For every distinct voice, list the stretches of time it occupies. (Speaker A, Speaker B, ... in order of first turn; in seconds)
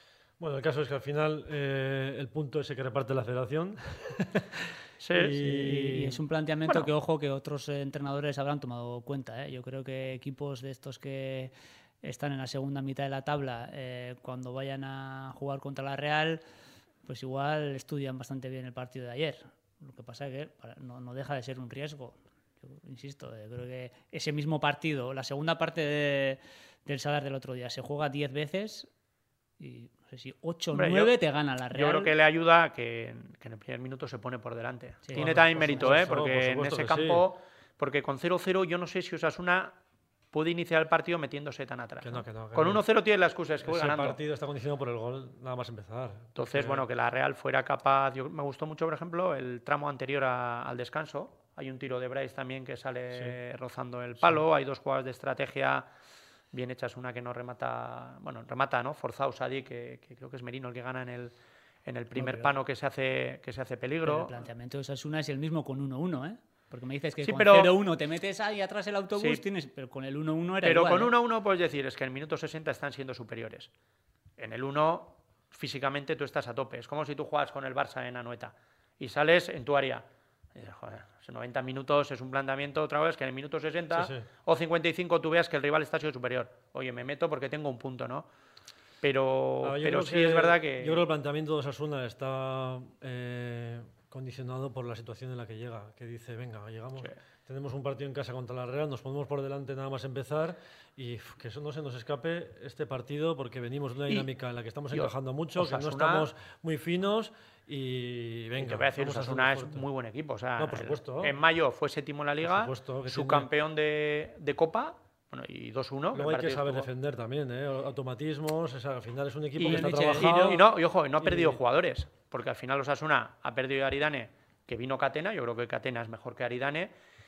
Speaker A: 0.4-6.2, 35.1-37.2, 42.0-42.8, 43.6-46.8, 83.9-84.2, 89.6-109.8, 110.6-111.3, 112.4-113.5, 116.1-120.6, 121.2-121.6
Speaker B: 5.0-5.7, 30.7-31.1, 31.7-39.7, 40.3-44.2, 46.4-55.9, 56.5-61.3, 61.8-64.5, 67.2-67.7, 69.2-69.4, 70.6-73.7, 74.4-88.3, 89.0-91.0, 104.9-106.3, 108.6-116.9, 119.6-126.9
Speaker C: 5.4-16.4, 17.0-28.9, 29.6-32.1, 35.0-36.0, 62.1-62.5, 64.0-71.1, 119.7-120.6